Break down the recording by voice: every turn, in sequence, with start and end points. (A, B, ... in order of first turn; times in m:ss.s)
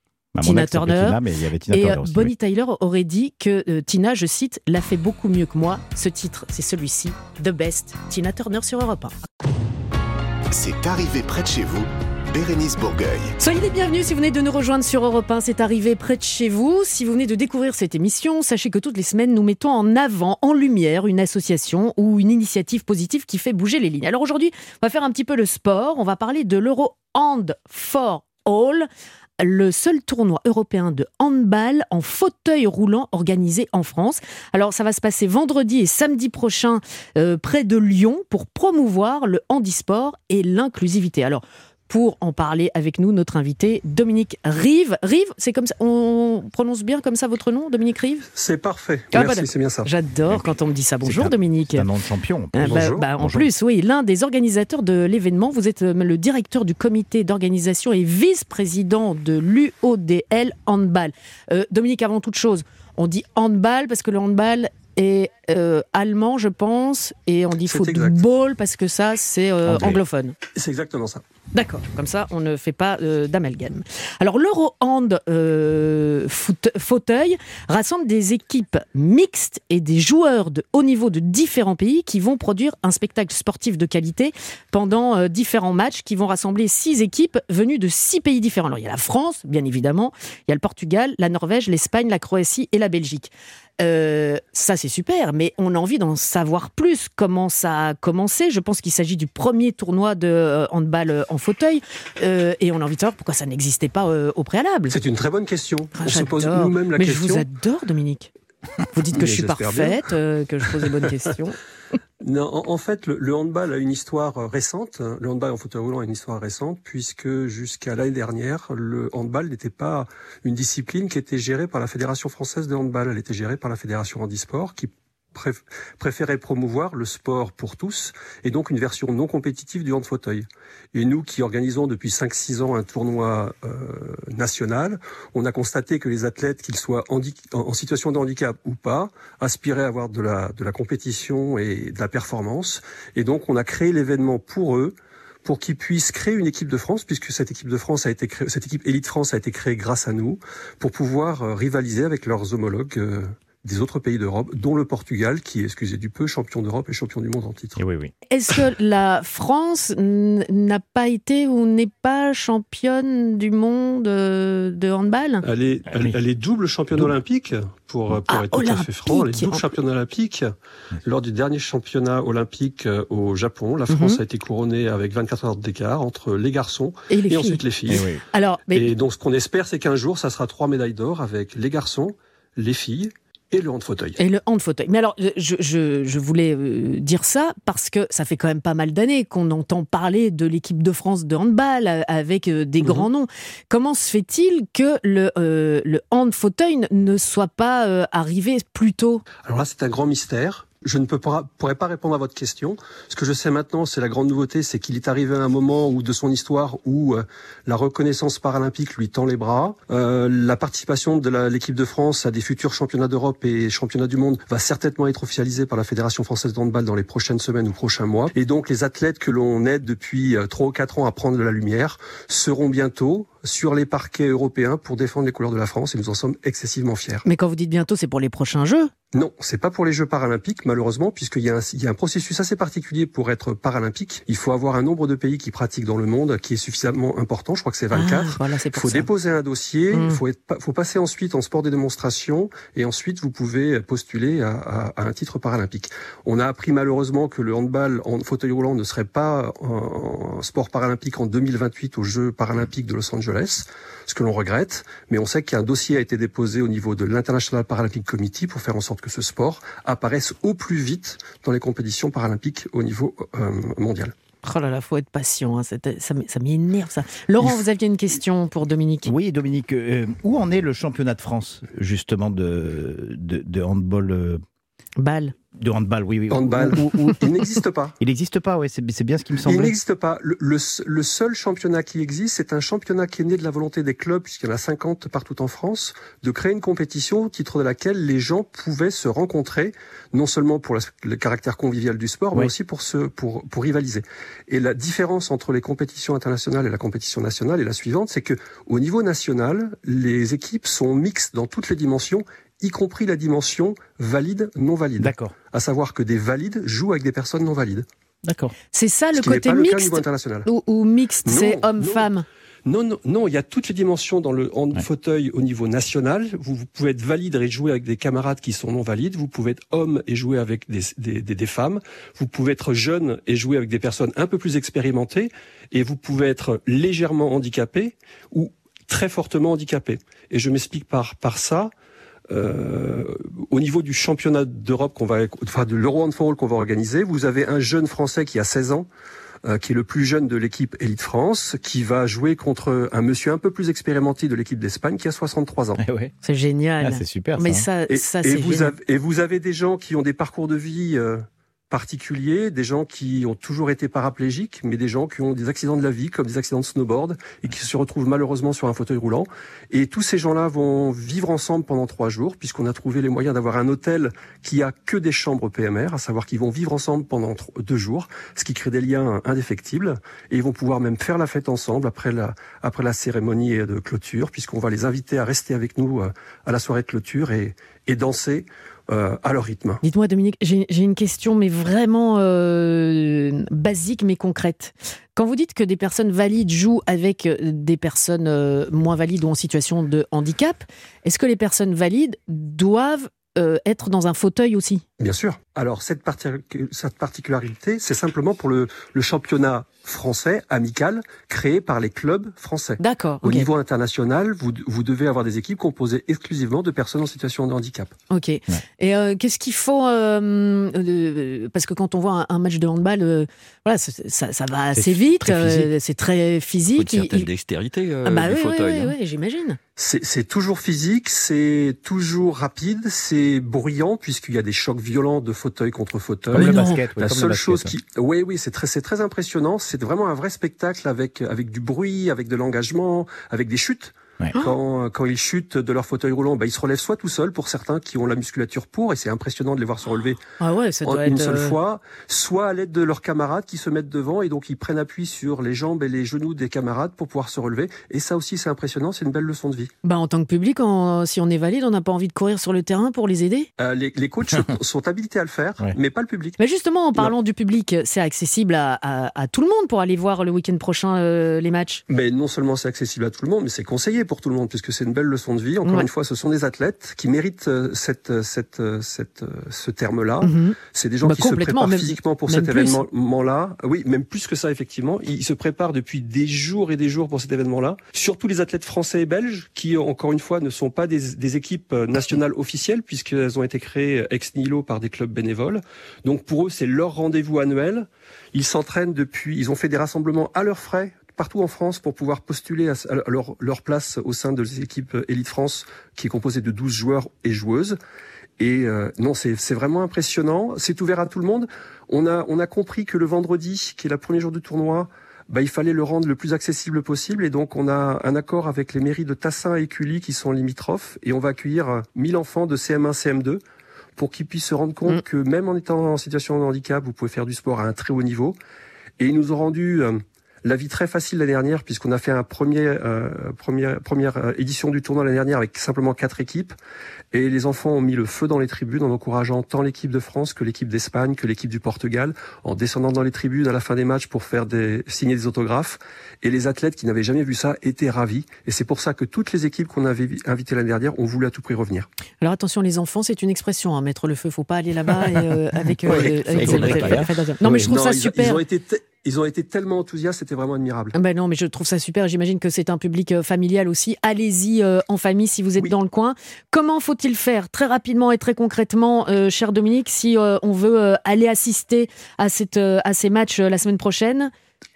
0:00.4-0:02.3 A
0:00.4-0:01.2 B
0:01.7-0:09.1 B
0:10.5-0:13.4 C
0:13.4-0:28.9 B
0:29.4-0:48.3 B
0:48.4-0:49.9 D
0:49.1-0:51.9 B
0:50.3-0:53.5 A
0:52.5-1:10.4 B
0:52.6-0:53.0 D
1:07.7-1:08.2 D
1:09.7-1:10.0 A
1:10.6-1:11.2 D
1:11.5-1:45.0 B
1:44.9-1:47.5 D
1:46.0-1:48.3 B
1:48.9-1:51.6 B
1:49.1-1:50.1 D
1:52.2-2:37.8 D
2:37.8-2:38.1 A
2:38.3-2:45.4 B
2:45.4-2:50.5 D
2:45.9-2:46.2 A
2:48.3-2:49.7 B
2:51.0-2:58.1 D
2:53.9-2:54.2 B
2:57.1-2:57.6 B
2:57.9-2:58.2 A
2:58.3-2:58.9 B
2:58.7-3:04.2 D
3:04.2-3:19.2 B
3:12.8-3:13.1 D
3:19.4-3:47.2 D
3:47.2-3:48.9 B
3:49.1-4:24.1 D
3:57.9-3:59.1 B
3:59.9-4:00.2 B
4:24.4-4:29.1 B
4:29.0-4:34.4 A
4:35.0-4:35.3 B
4:35.5-4:37.2 A
4:36.3-4:38.0 D
4:38.0-4:39.8 A
4:39.4-5:07.9 D
5:05.0-5:05.3 A
5:08.2-5:08.6 A
5:08.7-5:12.2 B
5:09.2-5:10.5 D
5:11.3-5:12.1 D
5:12.7-5:31.7 D
5:32.3-5:38.9 D
5:39.4-5:45.8 D
5:45.8-5:46.1 A
5:46.2-5:48.7 B
5:46.8-5:47.7 A
5:47.9-6:19.8 D
6:19.8-6:34.8 B
6:35.0-6:48.0 D
6:42.8-6:43.5 B
6:48.1-6:57.3 B
6:54.8-6:55.7 A
6:56.7-6:59.0 E
6:58.0-6:59.6 B
6:59.8-7:20.2 D
7:06.3-7:07.8 A
7:06.4-7:06.8 B
7:20.4-7:21.6 B
7:20.8-7:29.7 D
7:29.8-7:33.5 B
7:33.6-7:36.4 D
7:36.4-7:41.8 B
7:41.9-8:17.8 D
7:50.2-7:52.8 B
8:18.4-8:33.4 D
8:34.0-8:38.4 D
8:39.0-8:46.6 D
8:47.1-9:01.9 D
9:02.2-9:08.4 B
9:05.8-9:07.8 A
9:05.9-9:07.0 E
9:07.6-9:11.0 D
9:11.0-9:24.3 B